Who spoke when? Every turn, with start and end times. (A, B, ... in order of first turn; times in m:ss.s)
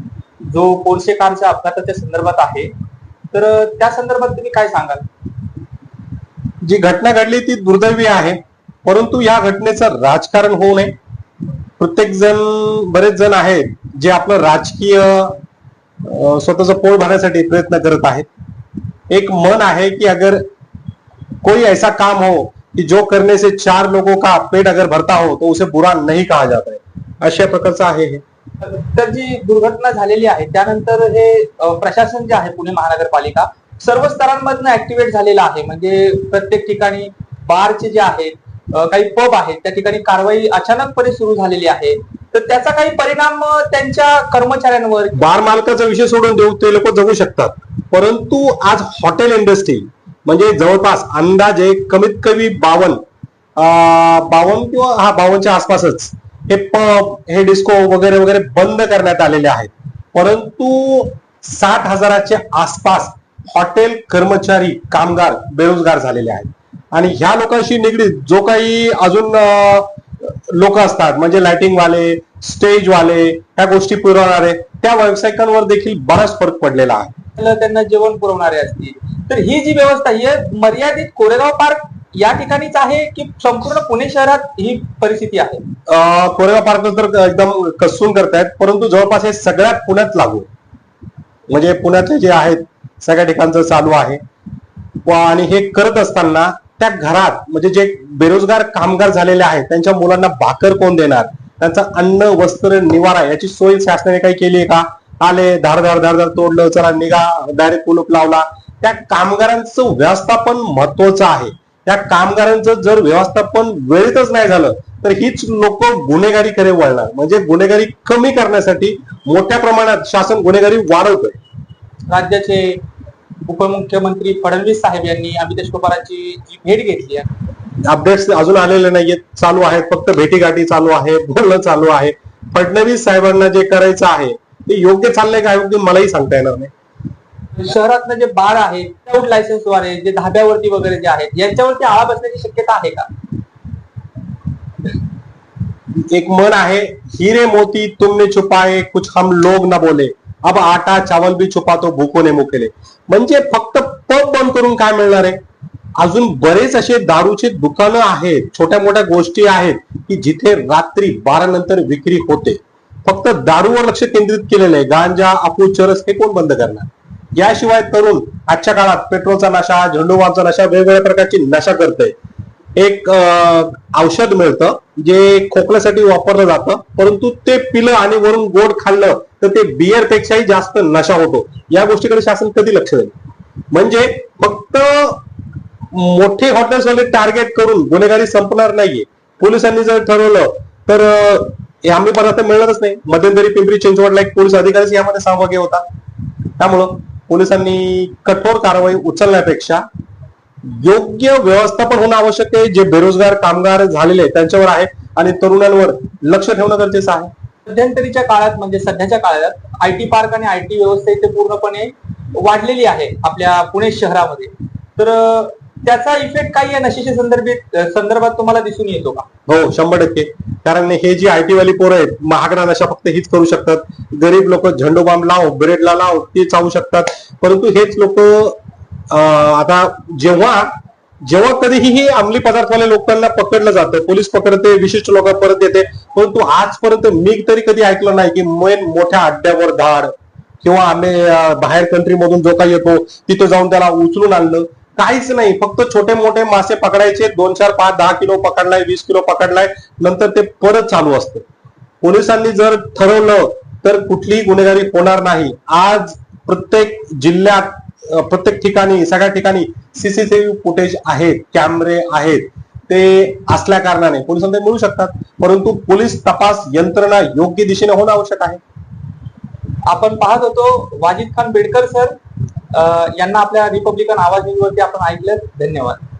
0:00.4-0:02.7 A
0:03.3-0:05.0 A
0:06.6-0:10.9 B
0:11.8-0:15.4 B
0:16.0-0:18.3 B
0:19.1-0:20.4 B
0:21.4-0:28.2 B
0:28.6-0:45.2 A
0:45.2-0:53.0 B
0:53.6-1:17.1 B
1:17.4-1:25.6 A
1:25.9-1:30.5 B
1:31.5-1:34.2 B
1:35.1-2:01.4 B
2:02.1-2:02.8 A
2:03.5-2:07.3 A
2:07.9-2:16.7 B
2:17.6-2:23.1 A
2:26.1-2:35.4 B
2:36.0-2:52.2 B
2:52.8-3:03.1 B
3:03.7-3:05.2 B
3:05.9-3:15.8 B
3:16.6-3:19.8 B
3:20.6-3:27.3 B
3:27.7-3:39.3 A
3:39.5-3:50.7 B
3:51.2-4:11.4 B
4:12.0-4:28.6 B
4:29.9-4:32.2 A
4:32.7-4:36.0 A